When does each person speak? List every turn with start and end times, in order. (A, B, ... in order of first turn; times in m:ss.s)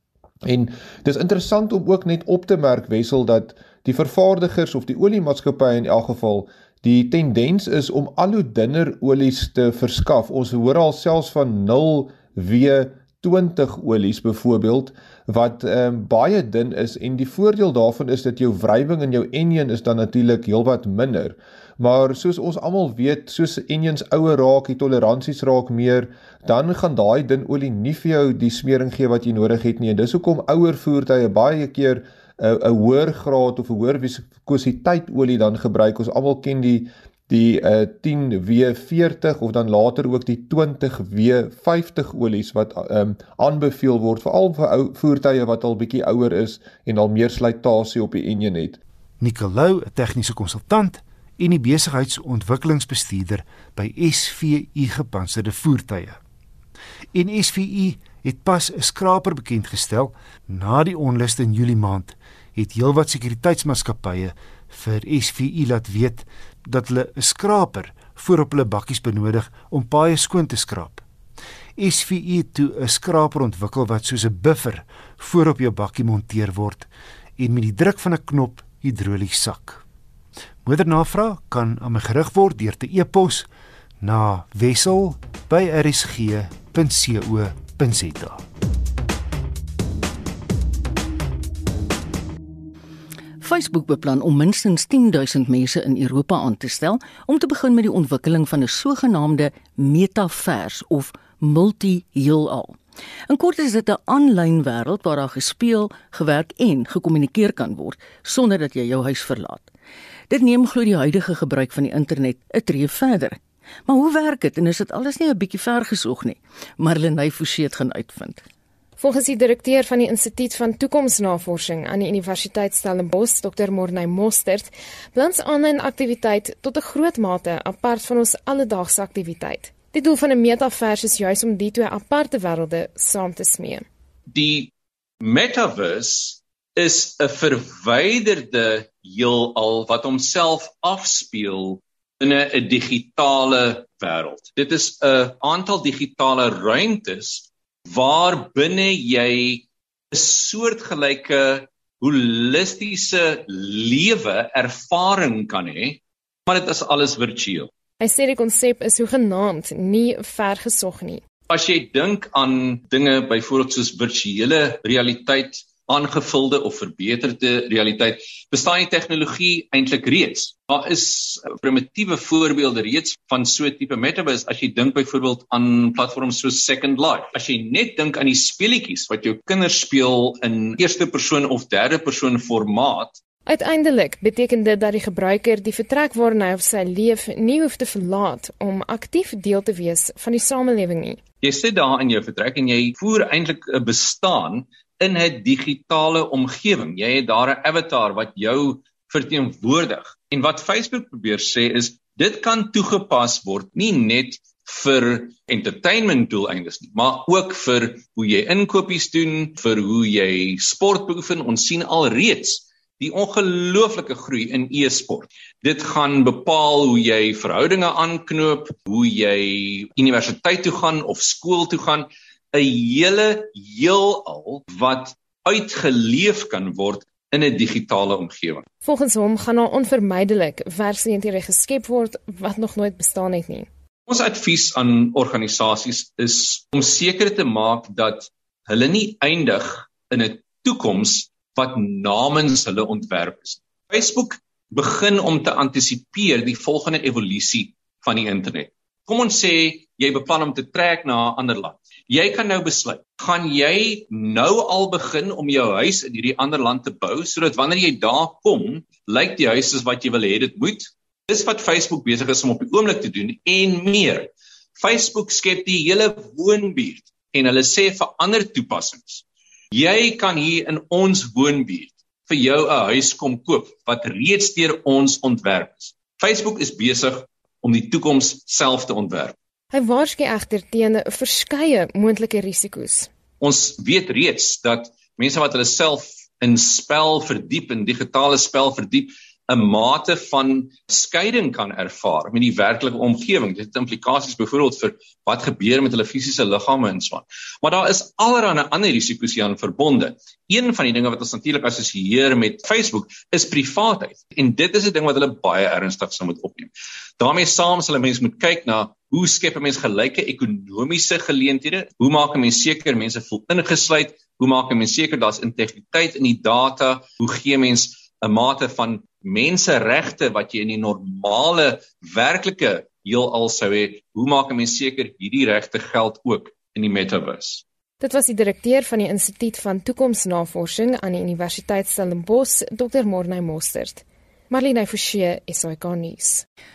0:00.4-0:48.8 A
0:49.2-0:56.2 B
0:57.1-1:11.0 B
1:11.8-1:19.8 B
1:20.6-1:23.5 B
1:24.0-1:28.4 B
1:33.4-1:42.8 C
1:43.3-1:49.7 C
1:50.3-1:58.4 C
1:59.0-2:13.8 D
2:14.3-2:37.7 E
2:38.0-2:41.2 D
2:41.5-3:03.2 E
3:03.5-3:11.2 D
3:11.4-3:48.7 E
3:48.8-3:53.7 D
3:54.1-4:39.4 E
4:39.7-4:43.1 D
4:43.4-5:27.6 E
5:28.0-5:36.4 D